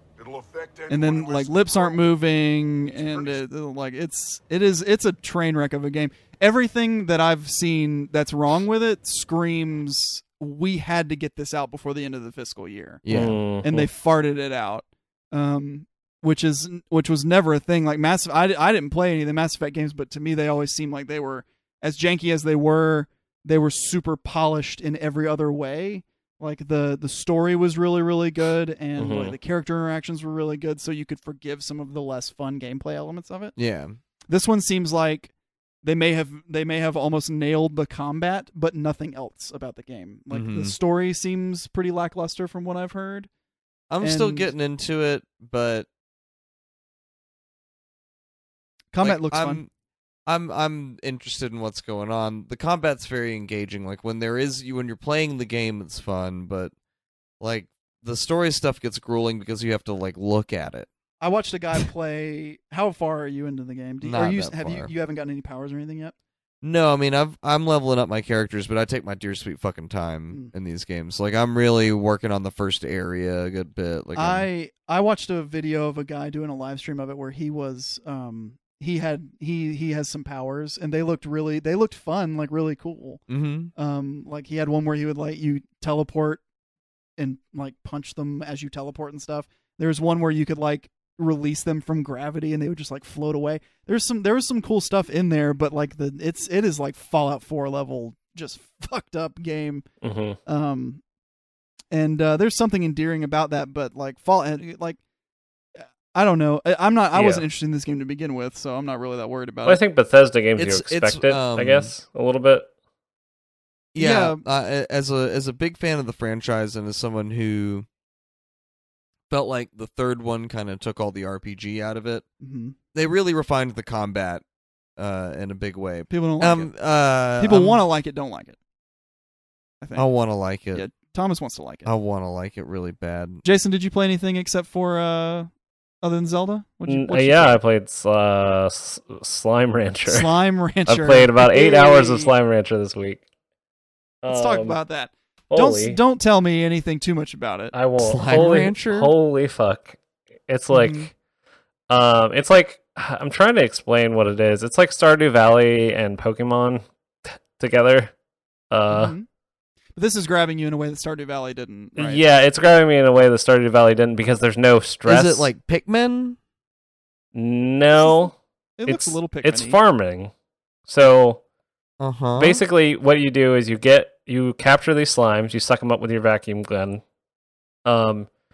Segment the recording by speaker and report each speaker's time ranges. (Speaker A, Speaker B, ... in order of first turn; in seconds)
Speaker A: 0.2-2.0, 3.0-3.4
Speaker B: 0.9-13.1, 13.6-33.5, 34.3-35.3, 35.8-43.3, 44.0-44.5, 48.9-49.6, 61.2-66.1, 74.2-83.2, 83.8-86.4, 87.2-99.8, 100.5-101.0, 101.9-105.0, 105.8-109.8, 114.0-114.4, 122.4-122.8, 126.1-126.7, 127.4-128.6, 129.8-130.1, 130.7-131.9, 133.4-135.5, 136.0-137.6, 140.1-142.3, 144.3-147.7, 150.7-151.1, 158.9-159.3, 159.9-162.2, 168.0-169.8
Speaker C: 13.0-13.4, 33.5-34.0, 40.3-40.7, 43.9-45.9, 49.0-49.7, 50.2-56.7, 57.4-60.9, 64.0-64.9, 66.6-74.5, 83.3-83.7, 110.6-111.9, 113.9-117.8, 119.3-122.2, 122.9-124.4, 125.0-127.8, 129.9-130.8, 131.8-133.4, 148.0-149.1, 165.1-166.4, 172.0-172.6
Speaker D: 13.1-13.8, 29.0-29.4, 100.0-100.4, 107.1-107.4, 109.7-112.7, 136.9-140.3, 140.8-143.2, 144.2-144.8, 145.5-146.0, 147.7-151.1, 151.9-158.1, 158.7-159.1, 162.0-165.5, 167.3-170.3, 170.9-171.4, 172.4-177.0, 177.8-178.3